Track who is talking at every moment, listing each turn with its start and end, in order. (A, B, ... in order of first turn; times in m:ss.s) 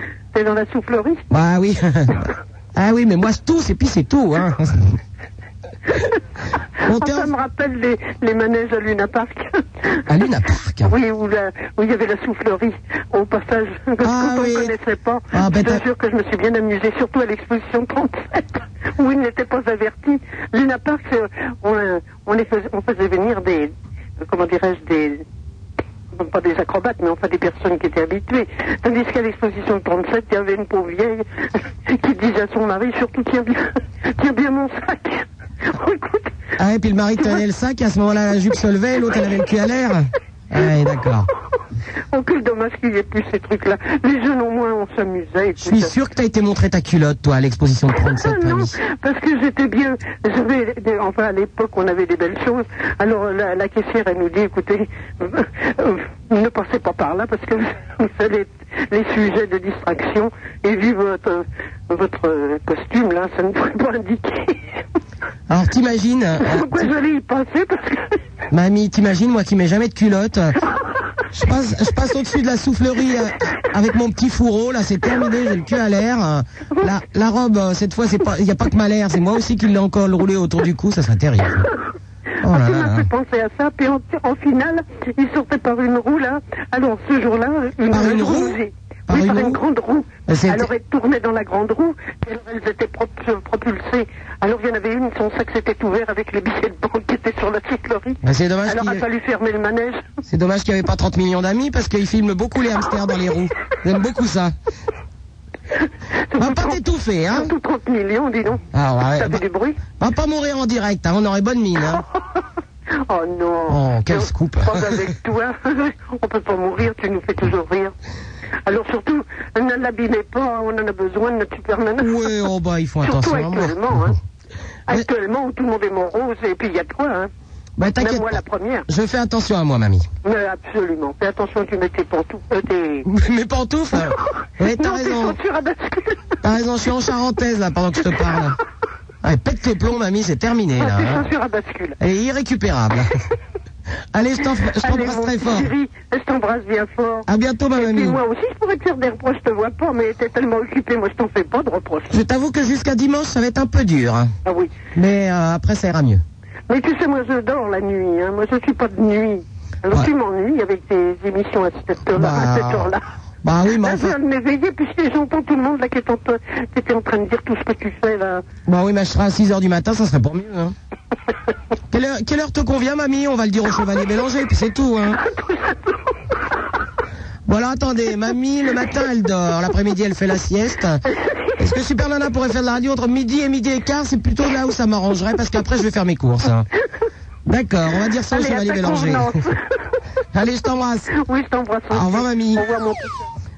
0:00.3-0:01.2 A
0:01.3-0:05.0 B
0:06.8-0:07.3 B
0:06.9-0:09.6 A
0:10.1-0:10.9 B
0:10.8-0:23.7 A
0:14.0-0:14.7 B
0:15.3-0:15.8 B
0:24.2-0:25.2 A
0:26.2-0:31.2 A
0:31.9-0:36.3 A
0:36.6-0:41.3 B
0:42.1-0:45.9 A
0:45.6-0:48.8 B
0:48.0-1:04.6 A
1:05.5-1:06.9 B
1:06.4-1:08.2 A
1:08.5-1:10.6 B
1:11.3-1:21.7 B
1:22.4-1:23.1 B
1:22.5-1:40.0 A
1:27.9-1:29.6 B
1:30.3-1:30.7 B
1:38.2-1:39.0 B
1:40.3-1:44.6 B
1:46.3-1:48.6 A
1:46.4-1:47.5 B
1:48.7-1:49.4 B
1:49.2-1:49.8 A
1:50.0-1:52.0 B
1:53.1-1:57.9 A
1:53.7-1:55.1 B
1:58.7-2:02.3 A
2:02.0-2:04.2 B
2:03.0-2:04.2 A
2:04.9-2:07.3 A
2:07.8-2:10.1 B
2:08.0-2:08.9 A
2:10.2-2:13.1 A
2:13.1-2:15.4 B
2:14.6-2:16.4 A
2:16.4-2:18.6 B
2:19.2-2:21.2 B
2:20.8-2:22.0 A
2:22.0-2:23.1 B
2:24.1-2:25.7 B
2:24.8-2:32.2 A
2:27.3-2:28.2 B
2:32.1-2:34.3 B
2:34.4-2:34.9 A
2:35.0-2:36.2 B
2:36.7-2:43.0 A
2:42.1-2:42.9 B
2:43.4-2:44.2 B
2:43.8-2:48.4 A
2:48.7-2:50.8 B
2:51.9-2:55.2 B
2:55.2-2:56.0 A
2:57.5-3:01.0 B
3:01.6-3:06.7 B
3:07.5-3:09.4 B
3:08.3-3:09.6 A
3:10.3-3:11.1 B
3:11.1-3:13.2 A
3:11.9-3:12.6 B